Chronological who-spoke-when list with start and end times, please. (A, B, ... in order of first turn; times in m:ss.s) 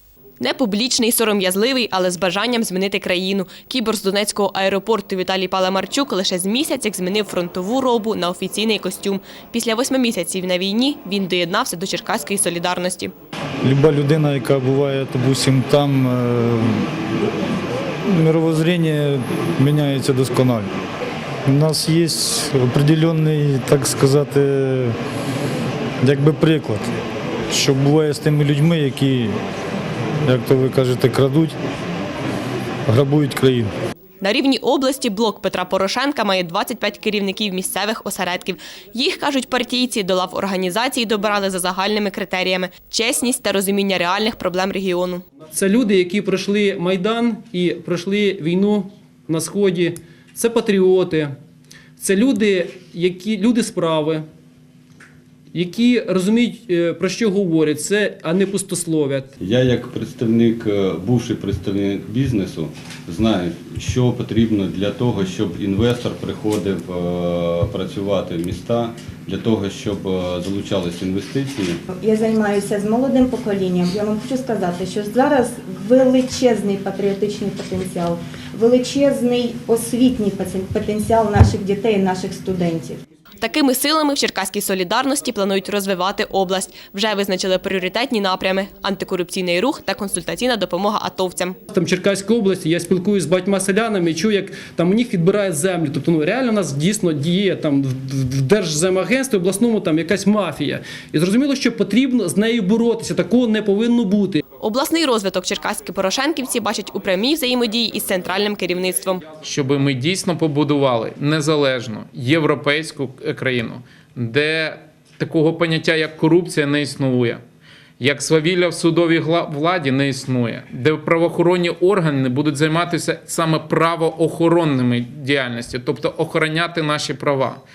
0:00.4-0:13.1 A
0:13.6-0:16.8 B
0:18.1-0:20.7 B
0:21.4-0:24.9 B
0:26.0-0:26.9 B
0:27.5-0:29.3 B
0:30.2-0:31.5 B
0:32.9-0:33.7 B
0:34.2-0:45.2 A
0:45.5-0:51.3 C
0:52.0-0:54.2 C
0:55.5-0:59.3 C
0:59.4-1:11.8 D
1:12.0-1:23.0 E
1:23.4-1:31.6 A
1:31.7-1:44.4 C
1:44.6-1:49.2 A
1:49.4-1:57.4 F
1:58.0-2:07.6 F